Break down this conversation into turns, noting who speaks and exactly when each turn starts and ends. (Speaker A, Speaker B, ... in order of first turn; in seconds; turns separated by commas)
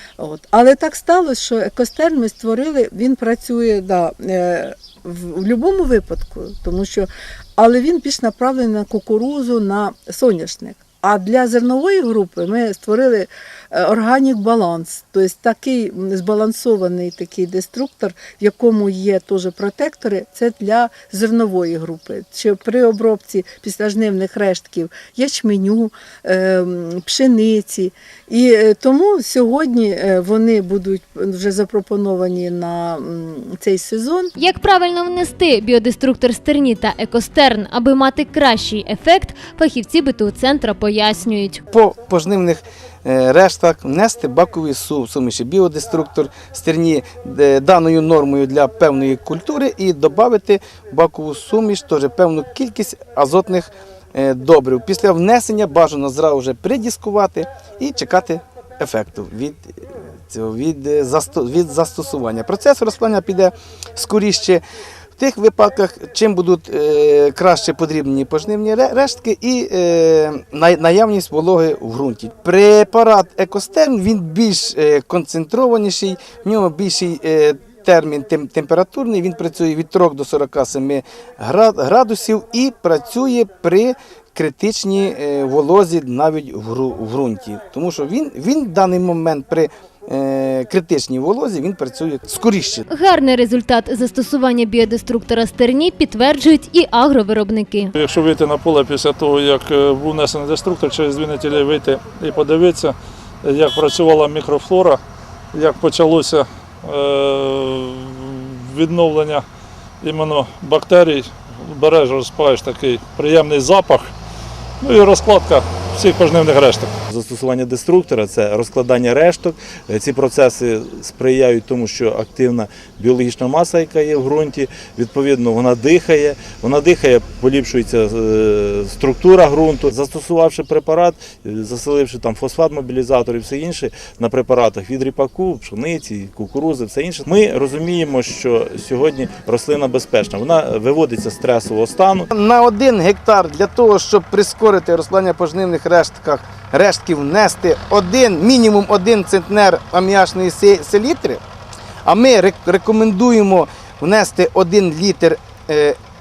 Speaker A: 0.2-34.3, Speaker B: 34.4-41.6, Speaker C: 41.7-64.6, Speaker C: 65.2-92.9, Speaker B: 92.9-97.9, Speaker D: 98.0-105.0, Speaker D: 105.5-109.5, Speaker D: 110.0-114.1, Speaker D: 114.8-116.9, Speaker E: 117.1-142.3, Speaker C: 142.3-151.4, Speaker C: 152.1-156.0